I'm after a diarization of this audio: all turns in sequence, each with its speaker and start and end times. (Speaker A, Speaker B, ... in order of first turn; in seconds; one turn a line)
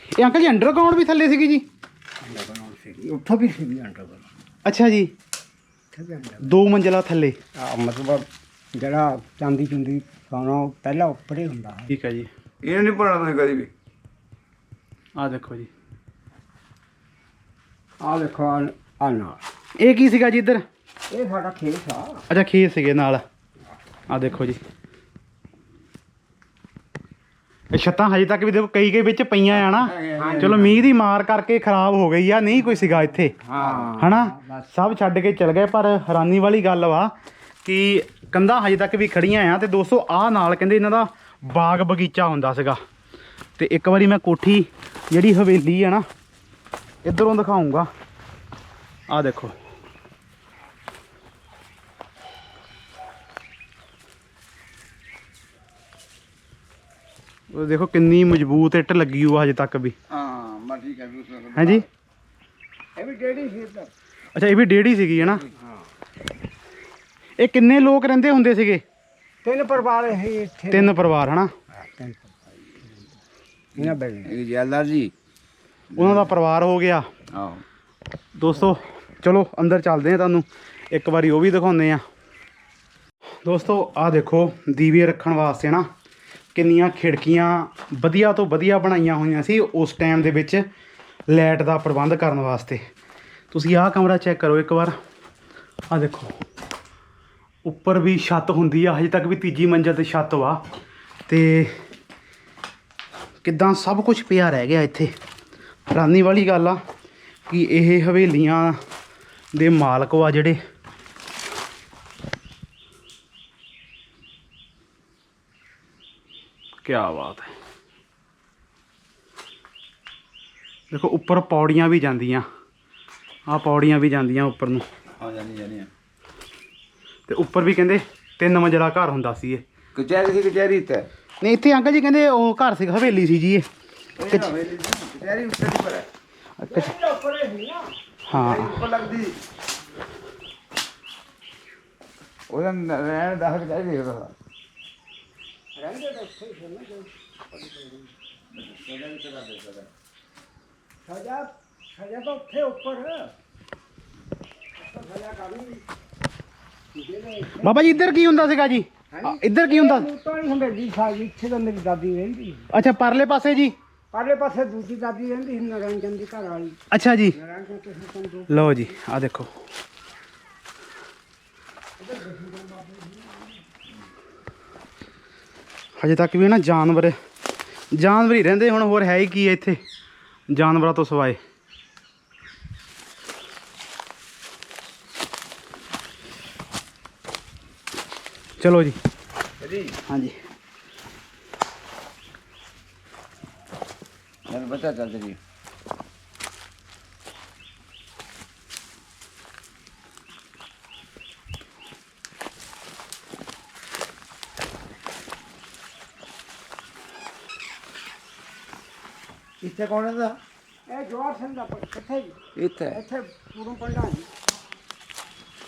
Speaker A: 0.2-1.6
Speaker B: 2.2-4.2
Speaker A: 4.6-5.1
Speaker B: 5.9-6.5
Speaker A: 6.4-7.3
Speaker B: 7.6-11.9
Speaker A: 11.9-12.3
Speaker C: 12.6-13.7
Speaker A: 15.2-15.7
Speaker B: 18.0-19.4
Speaker A: 19.8-20.6
Speaker B: 21.1-22.2
Speaker A: 22.3-23.2
Speaker A: 24.1-24.6
Speaker A: 27.7-33.3
Speaker C: 29.8-30.6
Speaker B: 30.1-30.7
Speaker B: 33.4-34.2
Speaker C: 33.6-33.9
Speaker A: 34.0-37.1
Speaker A: 37.6-42.8
Speaker A: 43.6-46.0
Speaker A: 47.0-47.9
Speaker A: 49.1-49.5
Speaker A: 57.5-60.0
Speaker C: 60.1-61.8
Speaker A: 61.5-61.9
Speaker B: 63.0-63.9
Speaker A: 64.3-65.4
Speaker A: 67.4-68.8
Speaker B: 69.4-71.0
Speaker A: 70.7-71.5
Speaker B: 71.7-72.3
Speaker B: 73.8-74.3
Speaker C: 73.8-75.1
Speaker C: 75.9-76.2
Speaker A: 76.0-77.0
Speaker C: 77.3-77.6
Speaker A: 78.4-82.0
Speaker A: 83.4-85.8
Speaker A: 86.5-90.6
Speaker A: 91.3-92.8
Speaker A: 93.5-94.9
Speaker A: 95.9-96.4
Speaker A: 97.6-100.6
Speaker A: 101.3-101.7
Speaker A: 103.4-105.1
Speaker A: 105.9-106.8
Speaker A: 107.5-108.8
Speaker A: 109.5-110.6
Speaker A: 116.8-117.5
Speaker A: 120.9-122.4
Speaker A: 123.5-124.8
Speaker C: 125.2-125.9
Speaker A: 127.3-129.6
Speaker C: 129.9-131.1
Speaker A: 131.4-133.7
Speaker C: 134.2-136.1
Speaker A: 136.6-136.9
Speaker B: 136.6-137.9
Speaker A: 138.3-138.8
Speaker C: 138.3-139.4
Speaker C: 142.5-144.3
Speaker B: 145.8-148.1
Speaker C: 148.5-149.9
Speaker B: 151.1-153.3
Speaker B: 154.8-155.8
Speaker B: 156.9-158.0
Speaker A: 157.6-160.1
Speaker B: 159.1-162.7
Speaker A: 162.7-163.7
Speaker B: 164.1-166.8
Speaker A: 166.9-167.3
Speaker B: 167.3-168.9
Speaker A: 168.5-169.5
Speaker B: 172.0-173.5
Speaker A: 176.0-177.1
Speaker A: 177.9-179.8
Speaker A: 180.5-181.4
Speaker A: 188.6-188.9
Speaker C: 189.6-189.9
Speaker A: 190.1-190.4
Speaker C: 194.5-195.4
Speaker C: 209.6-210.4
Speaker B: 210.9-212.4
Speaker C: 212.6-213.0
Speaker B: 212.9-214.3